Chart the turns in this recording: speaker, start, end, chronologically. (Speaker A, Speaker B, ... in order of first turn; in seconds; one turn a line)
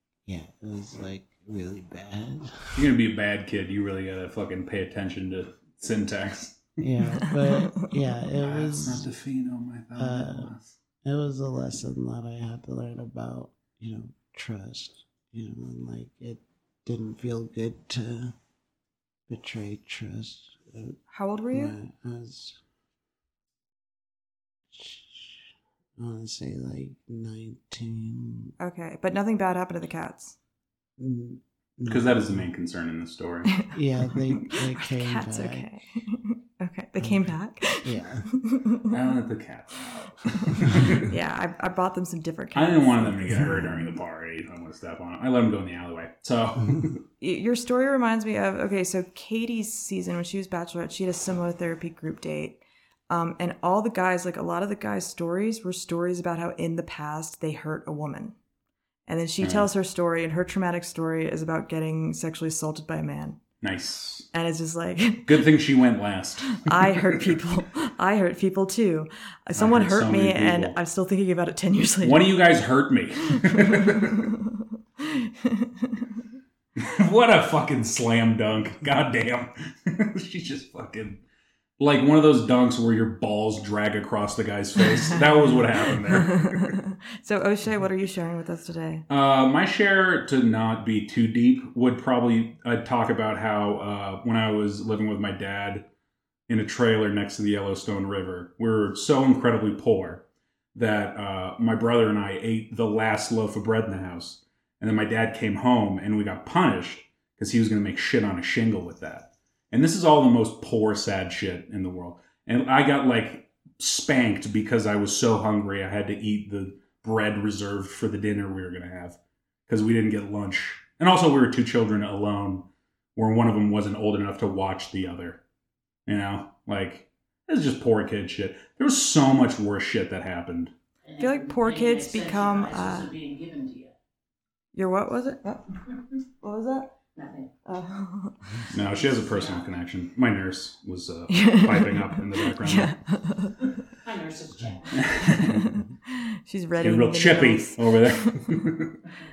Speaker A: 0.2-2.9
Speaker B: 2.7-6.7
Speaker A: 6.8-9.1
Speaker C: 7.2-7.9
Speaker B: 8.4-10.7
Speaker A: 9.9-10.5
Speaker A: 11.0-18.3
Speaker A: 19.3-21.0
Speaker C: 21.1-21.8
Speaker A: 21.5-22.6
Speaker A: 24.7-28.5
Speaker C: 28.6-30.4
Speaker A: 31.0-32.5
Speaker B: 31.9-33.7
Speaker A: 33.7-35.7
Speaker C: 34.4-38.9
Speaker A: 37.0-38.3
Speaker B: 38.9-41.1
Speaker C: 40.3-43.9
Speaker B: 42.5-47.0
Speaker C: 47.2-58.3
Speaker C: 59.1-63.4
Speaker B: 59.4-59.7
Speaker B: 63.6-64.3
Speaker C: 64.3-65.4
Speaker B: 65.2-67.4
Speaker C: 66.5-72.2
Speaker B: 69.5-70.8
Speaker B: 72.0-74.3
Speaker C: 73.4-74.4
Speaker C: 75.0-76.1
Speaker B: 76.8-81.2
Speaker B: 81.8-86.8
Speaker C: 85.9-89.0
Speaker B: 89.1-95.8
Speaker B: 96.5-125.4
Speaker B: 126.0-130.7
Speaker D: 131.0-133.9
Speaker C: 131.2-133.1
Speaker C: 134.7-135.6
Speaker C: 136.4-136.9
Speaker D: 137.1-137.5
Speaker C: 137.6-138.7
Speaker B: 138.7-142.9
Speaker D: 138.7-139.6
Speaker C: 141.3-143.6
Speaker D: 144.0-145.3
Speaker B: 144.9-145.7
Speaker C: 145.3-148.6
Speaker B: 146.8-149.0